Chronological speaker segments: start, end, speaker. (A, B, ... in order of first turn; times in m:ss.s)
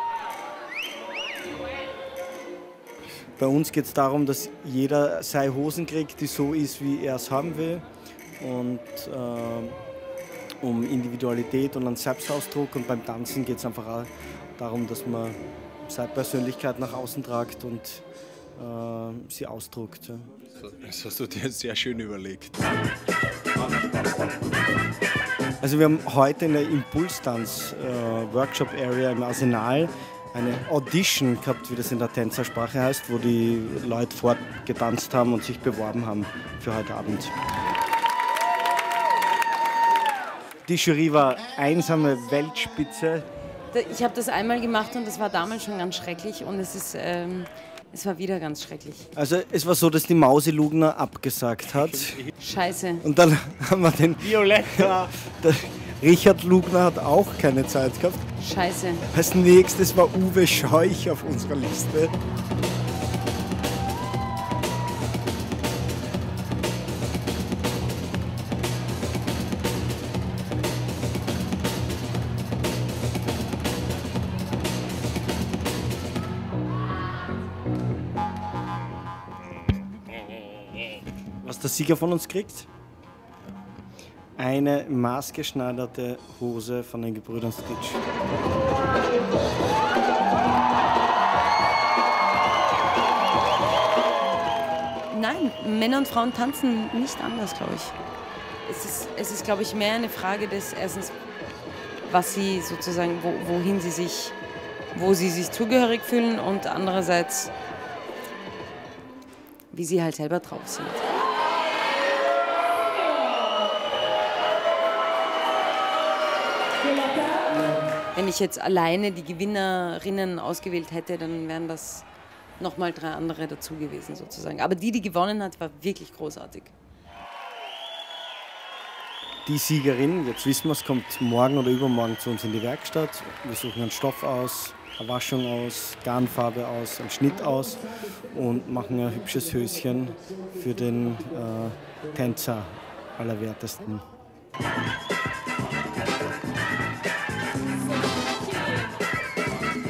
0:03.4-0:07.8 A
0:08.4-0:09.8 A
0:10.6-0:18.0 A
0:18.6-0:20.3 A
0:20.6-0:22.6 B
0:25.6-0:37.3 A
0:40.6-0:43.2 A
0:43.7-0:49.1 C
0:49.1-0:52.3 A
0:52.4-0:53.0 C
0:53.0-0:58.2 A
0:58.4-0:59.0 C
0:59.1-1:02.1 A
1:21.4-1:22.7 A
1:24.4-1:28.0 A
1:35.1-1:38.0 C
1:38.6-1:41.1 C
1:42.0-1:44.4 C
1:44.9-1:47.5 C
1:49.7-1:51.0 C
1:58.1-2:02.0 C
2:02.6-2:06.7 C
2:09.4-2:24.0 A